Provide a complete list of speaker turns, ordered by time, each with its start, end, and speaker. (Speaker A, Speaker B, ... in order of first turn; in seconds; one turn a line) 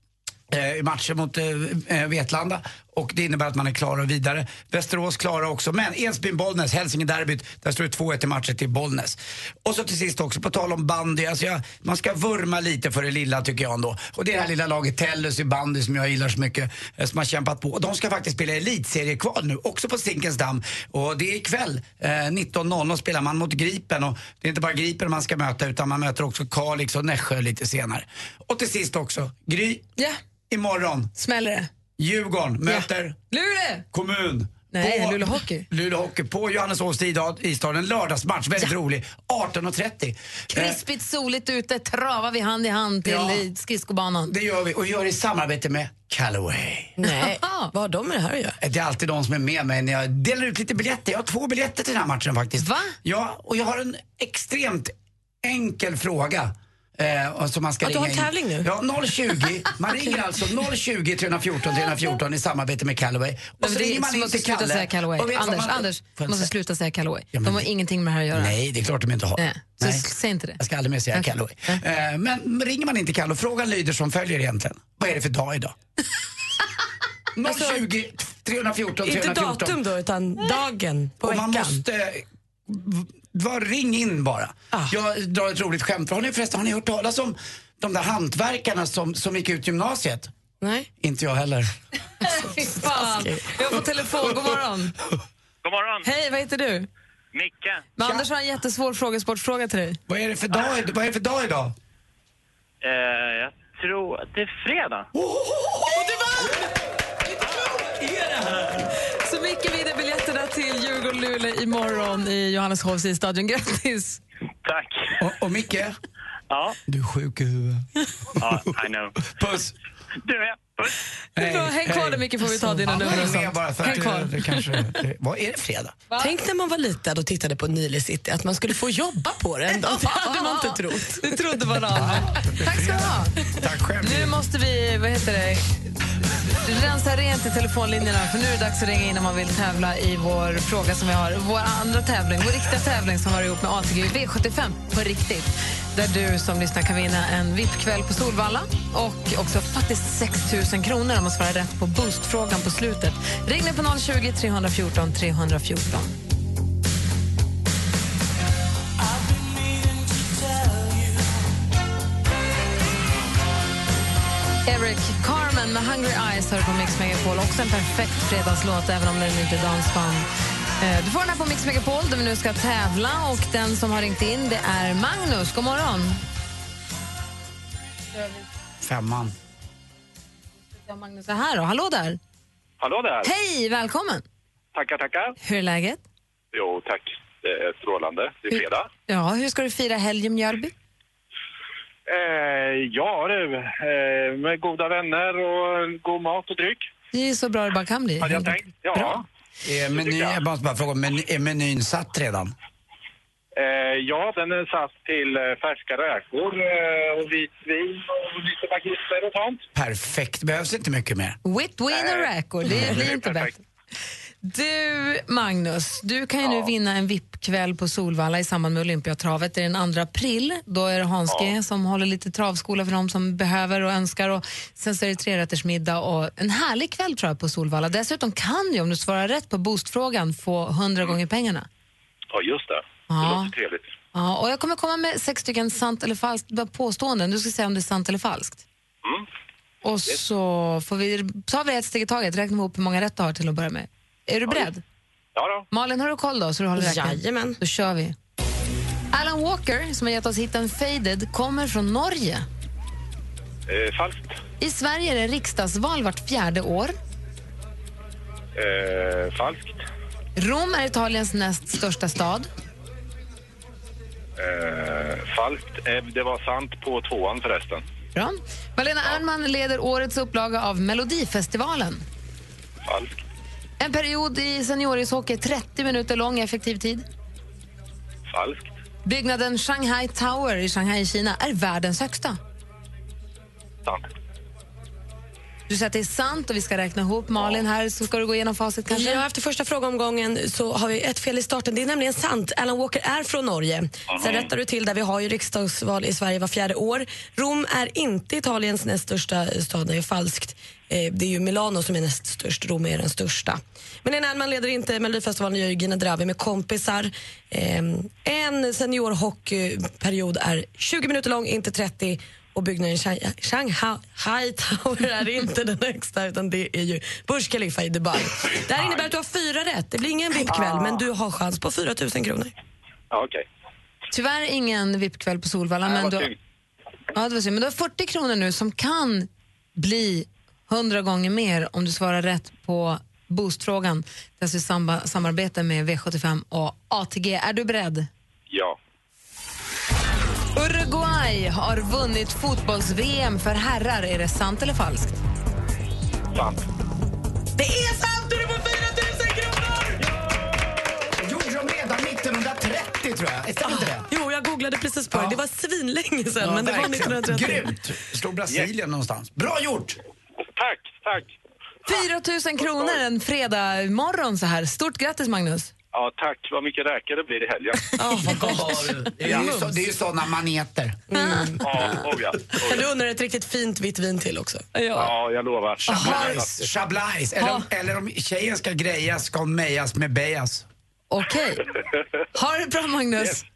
Speaker A: 0.5-29.9
Speaker A: 30.5-31.1
Speaker B: 31.2-31.7
Speaker A: 32.0-33.2
Speaker B: 32.7-33.9
Speaker A: 33.9-40.8
Speaker B: 34.7-35.7
Speaker B: 40.5-44.3
Speaker A: 43.0-43.5
Speaker A: 44.3-47.0
Speaker C: 47.0-48.6
Speaker B: 47.0-47.7
Speaker A: 48.6-66.5
Speaker B: 52.6-53.0
Speaker C: 57.8-58.7
Speaker B: 63.6-68.5
Speaker A: 67.3-67.7
Speaker A: 68.3-70.1
Speaker B: 69.4-70.6
Speaker A: 70.6-75.7
Speaker B: 71.1-71.8
Speaker A: 77.4-79.8
Speaker C: 77.5-77.8
Speaker C: 79.0-81.8
Speaker A: 81.2-90.3
Speaker C: 90.6-90.9
Speaker A: 91.0-91.7
Speaker B: 92.2-94.9
Speaker C: 92.6-93.8
Speaker D: 95.6-96.0
Speaker B: 96.0-96.9
Speaker D: 97.3-97.7
Speaker B: 98.0-100.0
Speaker A: 100.1-101.7
Speaker D: 102.8-105.1
Speaker A: 105.1-105.8
Speaker B: 109.2-114.2
Speaker D: 114.6-115.0
Speaker A: 115.2-116.0
Speaker D: 116.5-116.8
Speaker A: 116.9-117.9
Speaker D: 118.4-119.1
Speaker A: 118.4-118.7
Speaker A: 119.4-119.7
Speaker D: 120.2-120.8
Speaker A: 121.4-122.3
Speaker B: 121.4-124.6
Speaker C: 122.4-124.1
Speaker A: 122.8-126.0
Speaker C: 126.2-132.2
Speaker B: 129.7-133.3
Speaker A: 132.0-134.3
Speaker B: 134.0-135.8
Speaker B: 136.6-156.1
Speaker B: 164.7-170.3
Speaker B: 170.8-176.2
Speaker B: 178.1-178.4
Speaker A: 178.8-179.3
Speaker B: 180.7-182.2
Speaker E: 182.8-183.3
Speaker B: 183.2-184.2
Speaker E: 184.7-185.3
Speaker B: 185.4-186.0
Speaker E: 186.5-188.9
Speaker B: 189.1-190.7
Speaker E: 192.1-196.8
Speaker B: 197.1-199.2
Speaker E: 198.2-199.2
Speaker A: 199.6-202.5
Speaker E: 199.9-200.4
Speaker E: 203.6-209.6
Speaker A: 209.7-211.4
Speaker B: 211.4-213.6
Speaker E: 211.9-212.3
Speaker E: 212.8-213.6
Speaker B: 214.4-231.7
Speaker E: 216.4-216.7
Speaker E: 221.3-221.6
Speaker E: 232.3-233.9
Speaker B: 233.1-233.5
Speaker B: 234.1-238.6
Speaker B: 239.8-244.8
Speaker E: 245.4-245.6
Speaker B: 245.7-248.1
Speaker C: 246.8-247.6
Speaker B: 249.1-252.4
Speaker E: 253.7-254.4
Speaker B: 254.6-256.9
Speaker E: 258.6-259.8
Speaker B: 260.4-262.5
Speaker E: 264.4-267.8
Speaker B: 268.1-272.0
Speaker E: 272.9-273.2
Speaker B: 273.8-277.1
Speaker E: 278.3-278.7
Speaker B: 279.1-282.4
Speaker B: 285.7-289.2
Speaker C: 288.9-322.5
Speaker E: 320.6-321.0
Speaker E: 323.1-323.4
Speaker B: 324.1-326.3
Speaker E: 325.9-326.3
Speaker B: 327.1-338.1
Speaker E: 338.5-338.8
Speaker B: 340.6-345.1
Speaker E: 346.3-346.6
Speaker C: 347.6-349.5
Speaker A: 351.2-354.1
Speaker C: 353.6-357.7
Speaker A: 356.4-360.0
Speaker E: 360.6-361.4
Speaker B: 361.9-365.7
Speaker E: 365.9-367.8
Speaker C: 367.9-369.9
Speaker B: 368.3-368.6
Speaker A: 368.4-371.0
Speaker C: 371.1-374.7
Speaker B: 371.1-371.5
Speaker E: 371.6-372.9
Speaker B: 374.7-375.1
Speaker E: 375.0-376.5
Speaker A: 375.9-380.7
Speaker B: 375.9-376.4
Speaker B: 377.4-377.7
Speaker B: 381.1-381.7
Speaker B: 382.3-383.4